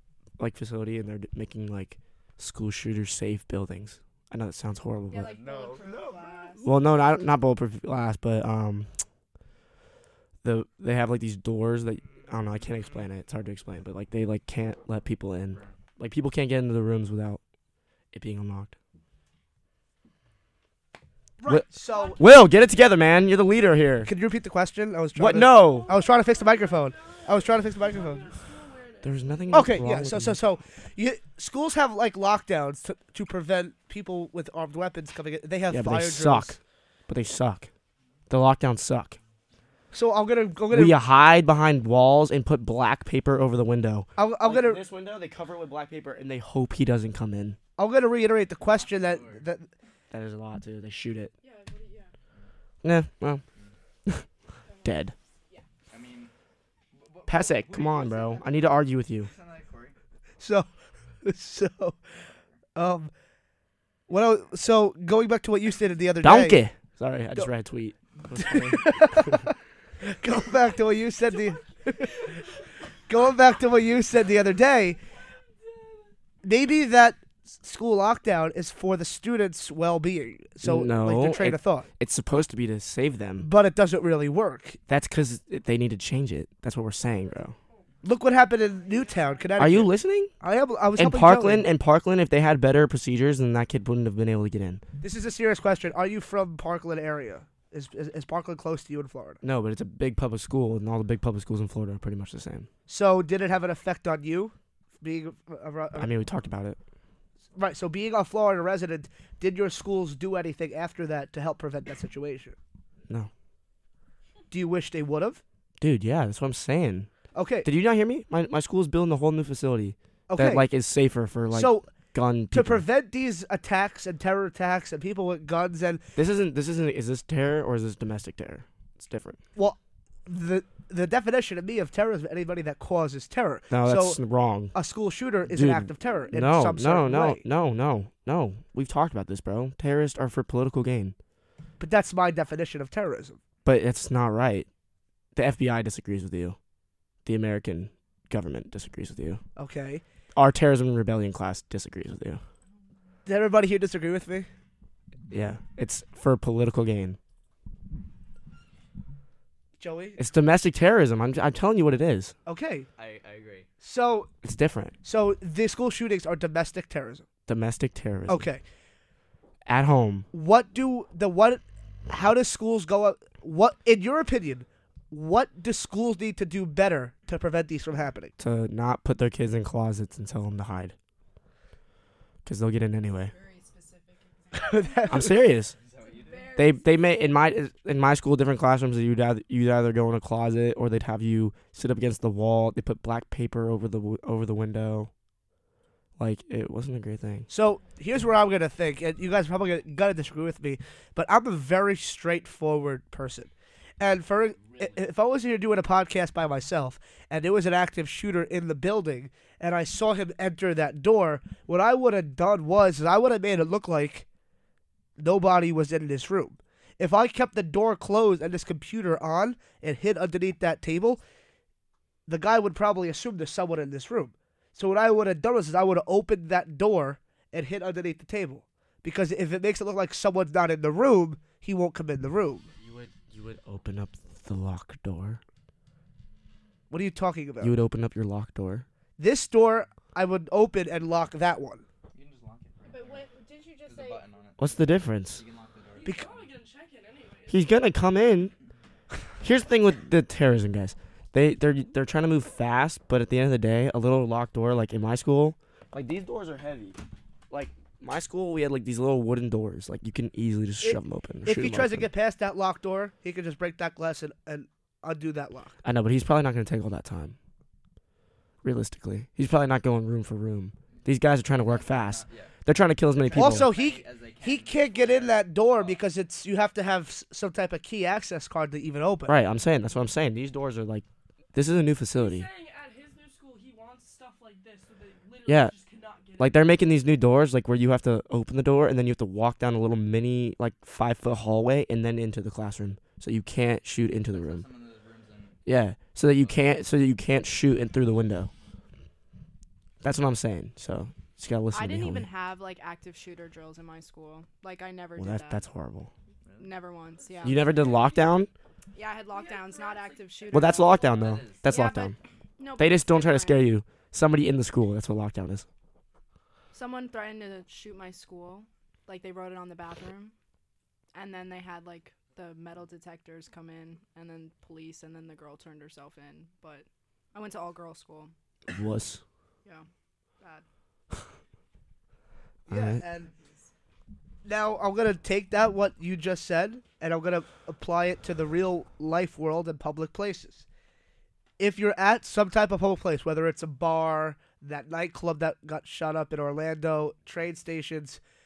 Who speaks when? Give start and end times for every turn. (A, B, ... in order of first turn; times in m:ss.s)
0:00.4-0:05.4 A
0:05.1-0:06.7 B
0:05.2-0:06.8 C
0:06.6-0:08.9 A
0:10.4-0:17.4 A
0:15.5-0:15.8 C
0:18.1-0:18.8 A
0:21.4-0:22.3 D
0:21.5-0:24.1 A
0:21.9-0:22.2 B
0:24.0-0:28.3 D
0:25.2-0:25.9 A
0:25.6-0:29.5 E
0:29.0-0:30.4 A
0:29.5-0:36.6 D
0:35.7-0:37.7 A
0:38.3-0:39.2 A
0:39.9-0:41.0 D
0:40.7-0:47.6 A
0:44.2-0:44.8 D
0:47.8-0:49.7 D
0:48.6-0:49.5 C
0:50.1-0:51.3 A
0:51.4-0:52.1 B
0:52.8-0:53.4 A
0:54.6-0:55.7 B
0:54.8-0:55.1 A
0:55.9-0:56.3 C
0:56.9-1:00.0 C
0:57.3-0:59.3 A
1:00.4-1:00.7 D
1:01.2-1:02.0 D
1:02.8-1:03.1 D
1:04.1-1:06.6 D
1:06.2-1:09.4 A
1:08.4-1:12.3 D
1:13.1-1:15.0 D
1:15.6-1:16.1 E
1:16.4-1:21.9 D
1:20.6-1:23.5 A
1:23.4-1:24.8 D
1:24.9-1:27.6 A
1:28.0-1:31.7 D
1:29.0-1:29.4 B
1:29.6-1:30.3 A
1:31.0-1:34.8 A
1:35.0-1:39.4 D
1:39.4-1:42.7 A
1:42.9-1:46.1 D
1:46.0-1:46.8 A
1:47.6-1:52.6 D
1:54.5-1:55.4 D
1:55.8-1:57.1 A
1:57.3-1:57.7 D
1:57.6-2:02.8 A
2:00.3-2:00.7 D
2:01.5-2:02.0 D
2:02.5-2:06.1 D
2:06.2-2:09.4 A
2:09.6-2:14.2 D
2:13.7-2:14.7 A
2:14.7-2:17.4 D
2:15.5-2:21.2 A
2:21.8-2:23.4 D
2:23.6-2:24.7 A
2:25.4-2:26.6 A
2:27.2-2:29.4 A
2:29.6-2:30.0 D
2:30.3-2:32.4 A
2:33.3-2:34.5 D
2:35.3-2:37.2 A
2:39.8-2:40.2 D
2:40.2-2:42.4 A
2:42.5-2:42.9 D
2:43.0-2:43.7 C
2:43.8-2:44.3 D
2:44.4-2:45.0 A
2:45.0-2:47.2 D
2:47.5-2:48.5 A
2:48.3-2:48.6 D
2:49.7-2:50.3 A
2:50.3-2:58.3 D
2:58.4-3:01.0 A
3:02.4-3:03.3 A
3:03.1-3:05.4 B
3:04.5-3:05.4 D
3:05.1-3:05.8 A
3:05.7-3:06.6 C
3:05.9-3:07.5 B
3:06.6-3:15.1 A
3:16.2-3:17.5 A
3:17.5-3:34.3 D
3:35.2-3:41.2 D
3:42.3-3:52.7 D
3:52.8-3:55.4 A
3:56.9-3:57.8 D
3:57.6-3:58.9 A
3:59.2-4:01.8 D
4:02.1-4:03.3 C
4:02.8-4:04.2 B
4:03.8-4:06.5 C
4:04.6-4:05.4 A
4:05.9-4:07.8 E
4:07.5-4:08.5 A
4:09.4-4:17.0 A
4:17.5-4:22.1 A
4:20.8-4:25.8 D
4:25.8-4:27.4 A
4:28.6-4:33.7 A
4:30.9-4:32.5 C
4:33.2-4:36.0 C
4:33.3-4:39.4 D
4:39.3-4:42.5 A
4:42.1-4:47.0 E
4:45.5-4:45.7 A
4:46.4-4:54.6 A
4:54.2-4:55.6 C
4:55.7-4:58.5 A
4:56.3-4:56.7 C
5:00.0-5:02.3 A
5:01.7-5:05.7 B
5:05.2-5:06.1 A
5:06.4-5:06.7 C
5:06.6-5:07.7 B
5:07.2-5:08.3 E
5:07.4-5:08.5 A
5:08.9-5:11.0 B
5:09.3-5:11.2 E
5:10.5-5:12.2 A
5:11.0-5:11.7 C
5:11.6-5:13.7 B
5:12.8-5:15.7 A
5:16.7-5:20.3 B
5:21.1-5:28.3 B
5:28.7-5:29.2 A
5:32.7-5:33.3 D
5:32.7-5:33.0 A
5:34.4-5:40.6 D
5:41.6-5:48.2 D